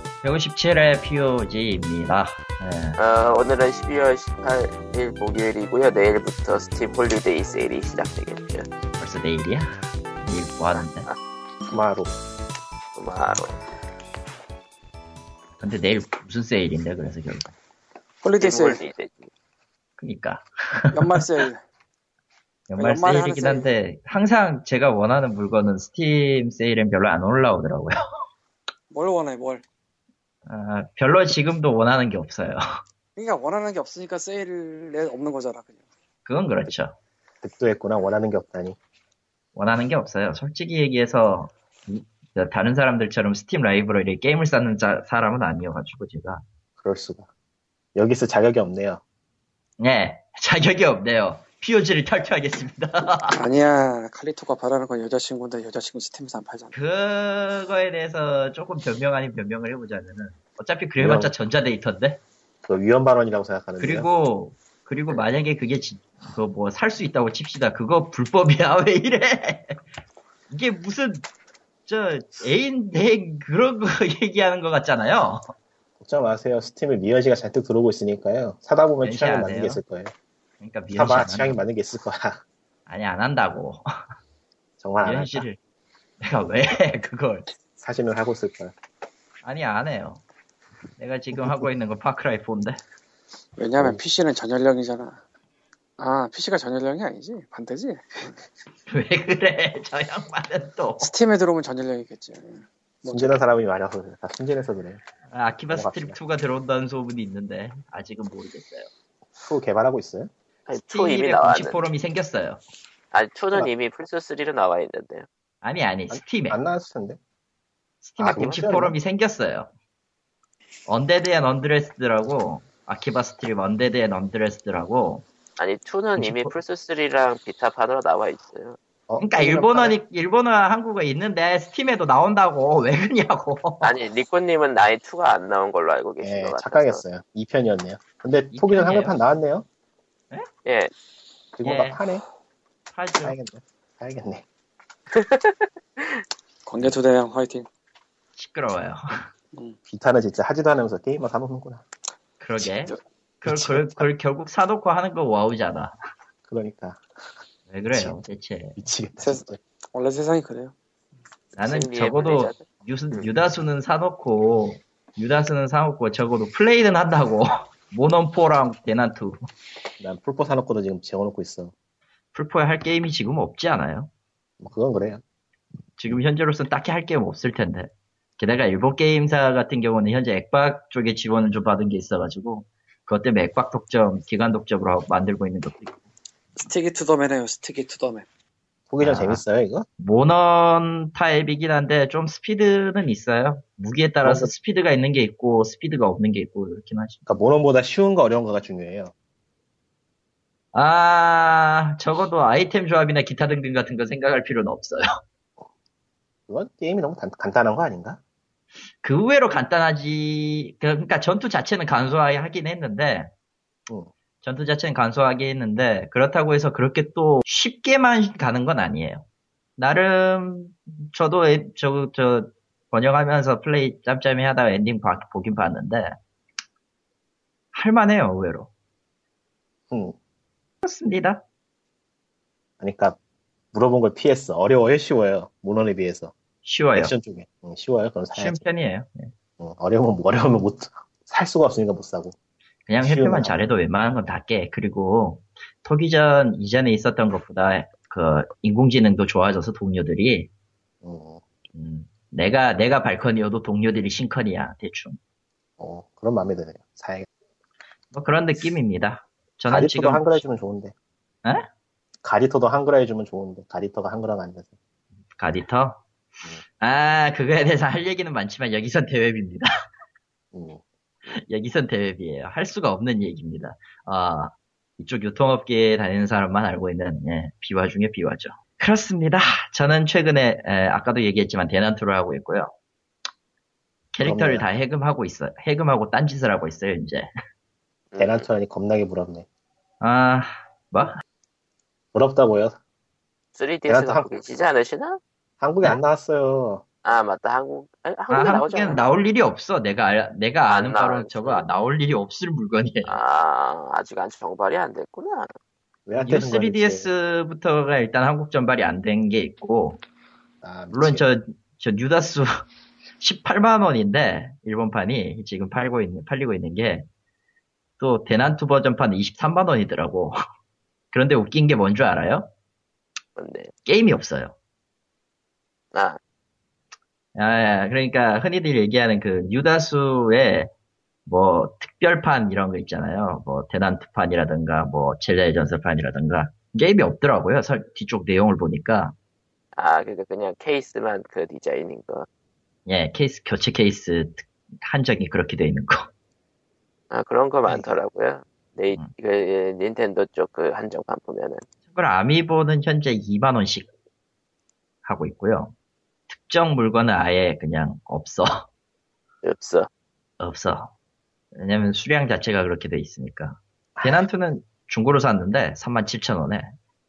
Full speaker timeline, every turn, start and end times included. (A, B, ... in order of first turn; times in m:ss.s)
0:00.2-0:03.0 A
0:03.0-0:08.7 B
0:09.0-0:09.7 A
0:10.2-0:11.1 A
0:11.7-0:12.2 C
0:13.0-0:13.6 B
0:15.6-0:17.6 A
0:18.2-0:18.8 D
0:18.4-0:19.3 B
0:20.0-0:21.2 A
0:20.9-0:21.6 D
0:22.7-0:28.0 A
0:22.8-0:23.7 D
0:28.9-0:29.6 D
0:30.5-0:32.6 A
0:33.2-0:35.8 D
0:36.3-0:37.0 A
0:37.4-0:38.8 C
0:39.6-0:46.4 A
0:46.8-0:47.3 C
0:48.0-0:49.0 C
0:49.8-0:53.4 A
0:53.3-0:56.7 D
0:56.7-1:02.2 A
1:01.0-1:01.3 C
1:02.6-1:04.1 C
1:03.8-1:09.8 A
1:10.5-1:11.3 A
1:11.9-1:15.5 A
1:16.0-1:20.1 C
1:19.0-1:19.8 A
1:20.6-1:21.6 A
1:20.9-1:22.4 C
1:22.9-1:23.8 A
1:24.8-1:25.4 C
1:25.0-1:25.6 A
1:26.2-1:27.5 A
1:27.8-1:28.7 C
1:29.4-1:30.2 A
1:31.0-1:32.8 A
1:31.3-1:31.7 C
1:33.6-1:35.2 D
1:36.0-1:38.4 D
1:38.9-1:41.1 A
1:41.0-1:43.4 D
1:43.1-1:45.0 C
1:45.3-1:48.9 A
1:45.7-1:46.2 C
1:49.4-1:50.3 C
1:50.7-1:51.9 B
1:50.9-1:52.6 A
1:53.1-1:55.3 B
1:55.6-1:56.6 A
1:56.1-1:57.2 C
1:58.0-1:59.7 A
1:58.2-1:59.0 C
2:00.9-2:05.3 A
2:05.6-2:08.8 B
2:06.2-2:06.5 A
2:09.1-2:10.0 C
2:09.2-2:13.9 A
2:13.8-2:17.0 B
2:16.2-2:19.7 C
2:18.5-2:19.2 A
2:20.6-2:20.9 B
2:21.6-2:22.2 C
2:21.6-2:22.0 A
2:22.9-2:23.4 A
2:23.2-2:24.4 C
2:25.1-2:26.2 B
2:26.7-2:27.7 D
2:28.4-2:29.3 A
2:29.9-2:31.8 C
2:32.4-2:36.0 A
2:33.4-2:34.1 C
2:36.5-2:37.0 C
2:37.7-2:38.8 A
2:37.9-2:38.2 C
2:38.8-2:39.6 C
2:39.2-2:40.7 D
2:41.6-2:49.5 A
2:41.6-2:43.3 B
2:50.0-2:51.7 C
2:52.3-2:54.1 A
2:54.6-2:55.2 C
2:56.0-3:06.0 A
3:06.6-3:08.3 D
3:08.9-3:09.9 C
3:09.0-3:09.4 A
3:10.0-3:17.2 A
3:14.2-3:14.5 C
3:17.3-3:19.1 C
3:20.7-3:25.1 A
3:26.5-3:28.2 C
3:29.0-3:33.3 A
3:34.4-3:39.2 A
3:39.8-3:46.2 A
3:47.7-3:48.7 A
3:49.9-3:50.2 C
3:50.8-3:51.4 A
3:52.8-3:53.2 C
3:53.7-3:56.3 C
3:56.6-3:57.1 A
3:57.0-3:58.6 C
3:58.4-3:59.3 A
3:59.6-4:02.4 C
4:02.9-4:10.5 A
4:03.0-4:03.6 C
4:11.0-4:11.4 C
4:11.7-4:15.2 A
4:15.8-4:17.3 C
4:18.1-4:20.4 A
4:19.7-4:20.9 C
4:22.2-4:24.7 C
4:25.4-4:26.0 A
4:26.8-4:29.7 A
4:30.5-4:30.8 C
4:31.3-4:42.7 A
4:44.1-4:47.3 A
4:44.2-4:44.7 C
4:48.1-4:48.5 B
4:48.2-4:49.5 C
4:50.0-4:51.2 A
4:52.1-4:52.8 C
4:53.6-4:55.2 B
4:53.9-4:54.3 C
4:55.6-4:56.8 C
4:57.0-4:59.0 B
4:58.3-5:03.2 A
5:00.7-5:01.6 B
5:03.1-5:05.5 B
5:06.1-5:07.1 C
5:06.2-5:10.0 A
5:10.6-5:11.2 C
5:10.9-5:12.5 A
5:13.2-5:17.1 A
5:18.0-5:20.4 A
5:21.1-5:22.5 A
5:23.4-5:23.7 B
5:23.8-5:24.6 A
5:25.9-5:26.2 B
5:27.4-5:30.7 A
5:31.3-5:39.2 A
5:39.8-5:42.3 B
5:42.9-5:46.1 A
5:47.1-5:51.6 B
5:51.9-5:53.9 A
5:55.0-5:55.8 A
5:56.3-5:58.7 A
5:59.4-5:59.9 B
6:00.4-6:00.9 A
6:01.6-6:06.7 A
6:04.0-6:04.3 C